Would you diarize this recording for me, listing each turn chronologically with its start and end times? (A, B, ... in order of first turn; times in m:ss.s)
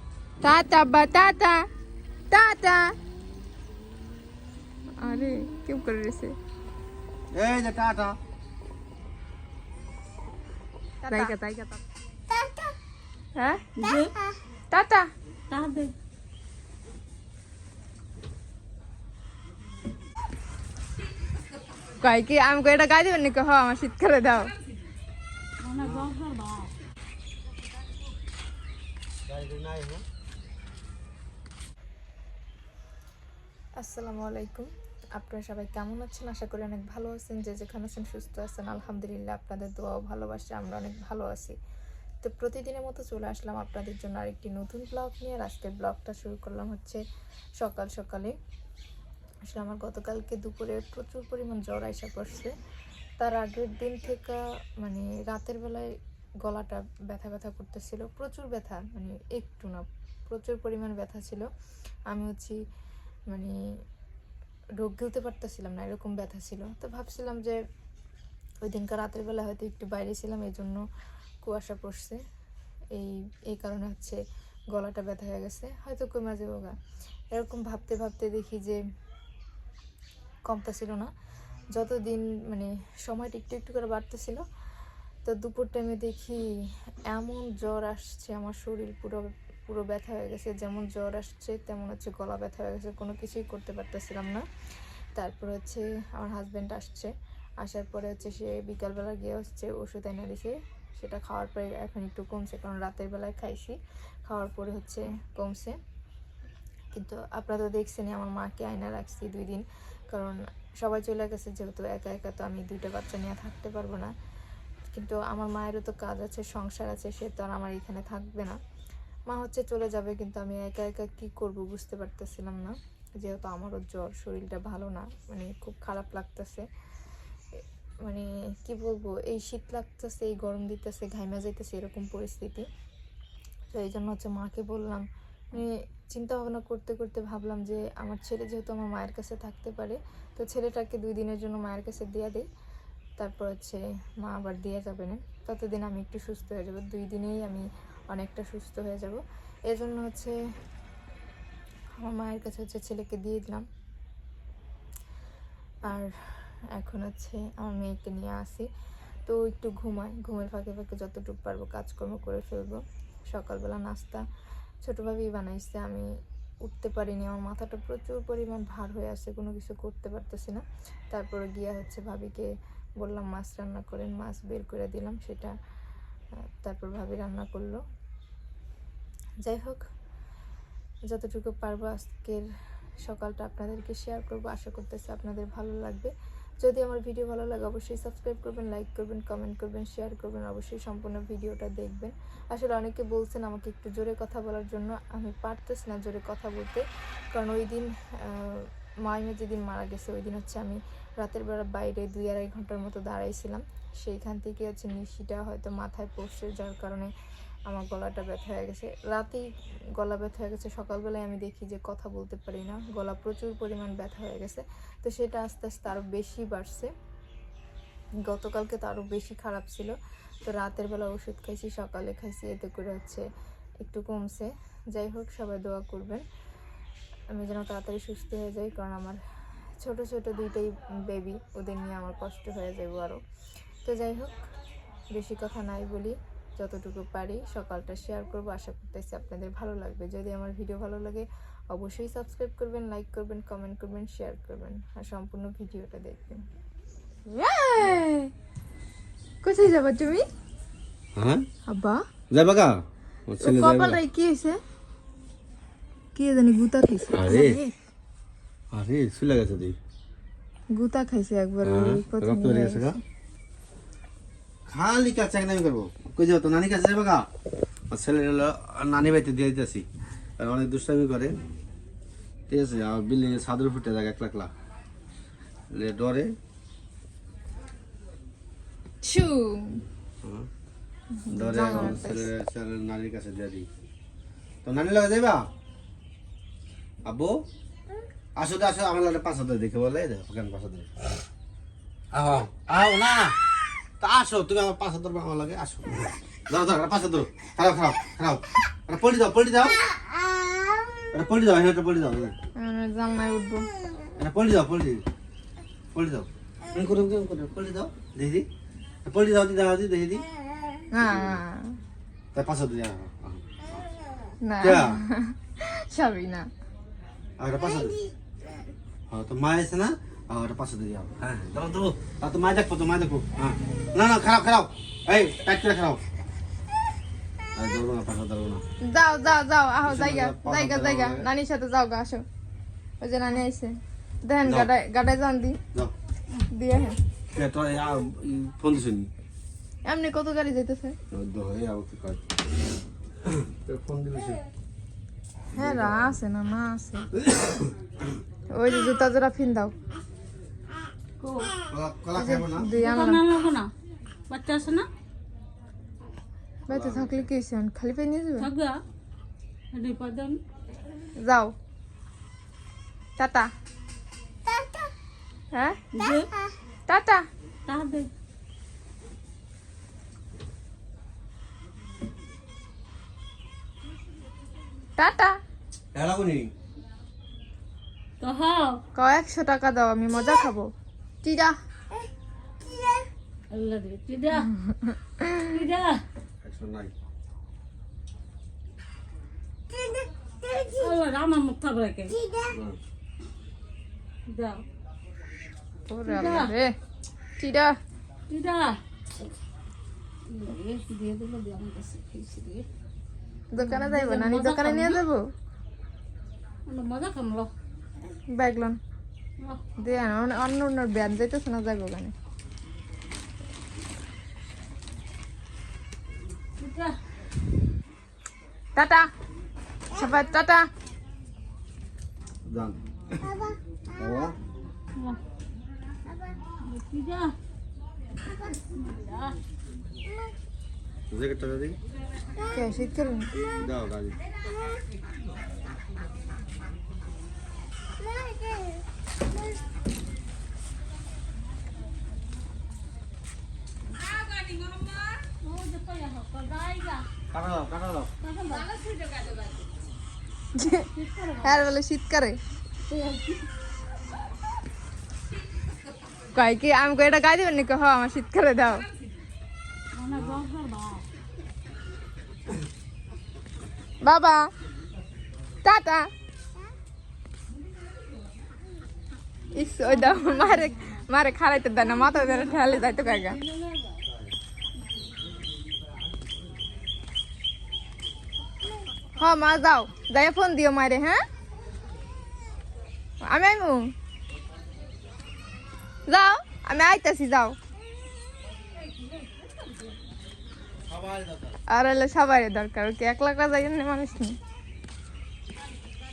0:00.4-0:01.6 A
0:02.3-0:02.8 A
0:05.0-0:06.3 A
0:07.3-0:08.2 B
0:11.0-0:11.8 A
0:13.8-0:14.1 C
0:14.7-0:15.0 A
0:15.5-0:15.9 C
0:22.0-0:24.5 A
0:25.6-0:26.7 C
0:25.8-0:26.1 B
0:29.3-0:30.0 B
0:33.8-0:41.5 A
0:42.2-0:47.0 A
0:47.6-0:48.3 A
0:49.5-0:52.5 A
0:53.2-0:55.9 A
0:56.4-1:01.5 A
1:02.1-1:02.6 A
1:04.8-1:07.6 A
1:08.6-1:10.8 A
1:11.4-1:12.2 A
1:12.9-1:14.2 A
1:14.7-1:16.7 A
1:17.3-1:18.8 A
1:20.4-1:21.1 A
1:21.7-1:24.4 A
1:25.2-1:26.4 A
1:27.1-1:34.4 A
1:35.2-1:37.1 A
1:37.6-1:45.8 A
1:46.9-1:54.1 A
1:54.9-1:58.6 A
1:59.3-2:06.6 A
2:07.6-2:12.7 A
2:13.7-2:22.4 A
2:23.2-2:30.3 A
2:32.0-2:33.6 A
2:35.8-2:36.1 A
2:36.7-2:38.7 A
2:39.2-2:44.2 A
2:44.8-2:46.1 A
2:46.6-2:55.5 A
2:56.6-2:57.8 A
2:59.4-2:59.8 A
3:01.1-3:02.4 A
3:03.0-3:06.1 A
3:06.6-3:27.1 A
3:27.7-3:29.4 A
3:30.0-3:36.9 A
3:38.2-3:43.2 A
3:43.8-3:46.2 A
3:47.3-3:49.2 A
3:49.8-3:53.2 A
3:53.8-3:54.4 A
3:55.1-4:06.4 A
4:07.3-4:08.3 A
4:09.4-4:10.2 A
4:11.1-4:11.4 B
4:11.7-4:12.0 A
4:12.3-4:14.0 B
4:13.4-4:14.6 A
4:16.2-4:17.7 A
4:17.1-4:17.6 B
4:18.7-4:19.8 B
4:20.7-4:23.0 A
4:21.6-4:23.0 B
4:24.7-4:27.3 B
4:27.9-4:29.8 B
4:30.4-4:31.4 B
4:32.5-4:34.5 B
4:35.7-4:36.3 B
4:39.0-4:39.8 A
4:40.2-4:40.5 B
4:41.2-4:42.3 A
4:41.3-4:43.7 B
4:44.6-4:45.5 B
4:47.0-4:47.4 B
4:48.4-4:50.9 B
4:52.1-4:53.4 B
4:54.0-4:59.8 B
5:01.1-5:02.3 B
5:02.6-5:03.6 A
5:04.2-5:05.0 B
5:05.9-5:08.5 B
5:09.0-5:10.2 B
5:10.9-5:11.8 A
5:11.0-5:11.4 B
5:12.3-5:13.8 B
5:14.4-5:16.5 A
5:14.6-5:15.0 B
5:17.4-5:18.0 B
5:19.1-5:26.0 B
5:27.5-5:28.6 B
5:28.9-5:32.2 A
5:29.8-5:31.2 B
5:33.0-5:33.7 A
5:34.2-5:35.6 A
5:34.4-5:34.7 B
5:36.5-5:37.0 A
5:37.3-5:39.1 B
5:39.8-5:41.0 A
5:41.1-5:42.2 B
5:43.3-5:44.4 B
5:45.5-5:46.2 B
5:45.5-5:47.1 A
5:47.2-5:47.7 B
5:48.5-5:49.7 A
5:51.2-5:51.5 C
5:51.7-5:52.7 B
5:52.1-5:53.2 A
5:52.8-5:53.7 C
5:54.3-5:54.9 C
5:56.7-5:58.5 A
5:56.7-5:57.3 B
5:58.4-5:58.8 C
5:59.7-6:00.4 C
6:01.2-6:01.5 A
6:03.2-6:03.5 A
6:05.5-6:05.8 A
6:05.9-6:06.3 C
6:06.9-6:07.2 A
6:07.6-6:08.1 C
6:15.0-6:15.4 A
6:15.9-6:16.5 B
6:18.2-6:18.8 C
6:19.0-6:20.7 A
6:21.2-6:21.5 A
6:23.5-6:24.5 C
6:25.4-6:26.0 C
6:26.4-6:26.9 B
6:30.4-6:32.2 C
6:32.4-6:32.8 B
6:34.3-6:34.6 C
6:35.9-6:36.7 A
6:36.0-6:36.5 C
6:37.4-6:37.7 A
6:38.3-6:38.8 C
6:40.3-6:42.6 C
6:43.5-6:45.2 A
6:43.6-6:45.0 C
6:46.7-6:47.5 C
6:48.3-6:48.8 A
6:49.8-6:52.1 A
6:56.6-6:56.9 C
6:58.8-6:59.1 A
6:59.9-7:00.6 A
7:02.4-7:03.4 B
7:03.9-7:04.4 B
7:06.5-7:07.3 C
7:08.3-7:09.4 C
7:11.1-7:11.8 B
7:12.4-7:13.3 A
7:13.5-7:14.2 B
7:24.0-7:27.1 C
7:27.3-7:28.1 B
7:28.2-7:29.6 C
7:30.5-7:30.9 A
7:30.8-7:31.7 C
7:31.4-7:32.4 A
7:32.8-7:33.5 C
7:36.3-7:38.9 A
7:39.9-7:41.0 C
7:44.0-7:44.4 A
7:45.6-7:46.1 A
7:49.5-7:53.4 A
7:49.8-7:51.0 C
7:51.8-7:54.0 C
7:59.2-8:01.2 A
8:03.3-8:03.9 A
8:06.1-8:07.6 A
8:08.8-8:09.7 C
8:10.8-8:11.6 B
8:11.7-8:14.4 A